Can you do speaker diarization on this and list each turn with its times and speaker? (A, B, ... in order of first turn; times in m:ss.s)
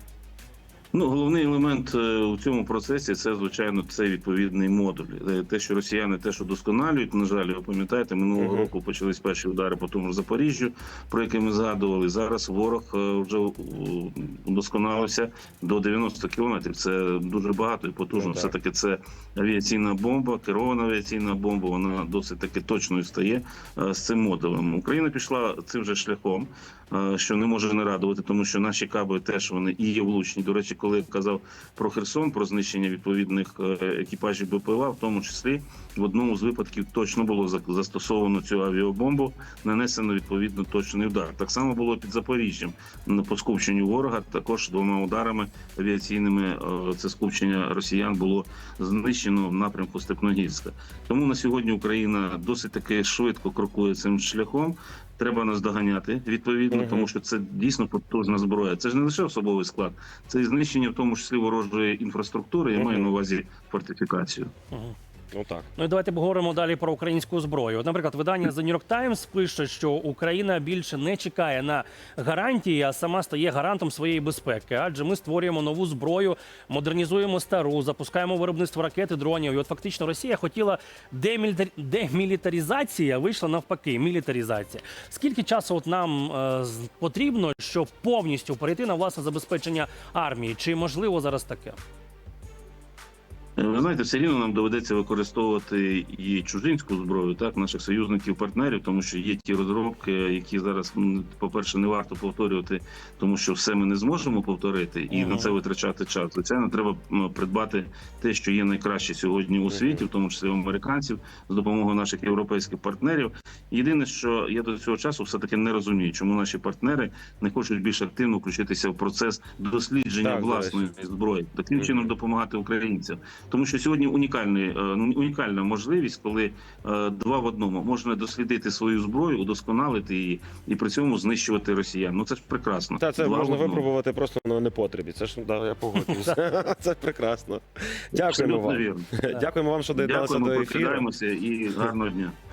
0:00.9-1:04.5 A
0:08.4-0:08.7 B
0:18.1-0:18.5 B
0:56.7-0:57.1 B
1:02.7-1:03.1 B
1:05.3-1:05.7 B
1:05.8-1:31.8 C
1:33.6-2:13.9 A
1:45.1-1:45.6 C
1:49.7-1:50.0 B
2:00.2-2:00.8 B
2:01.8-2:02.1 B
2:13.0-2:21.1 B
2:18.3-2:19.1 A
2:20.0-2:22.4 A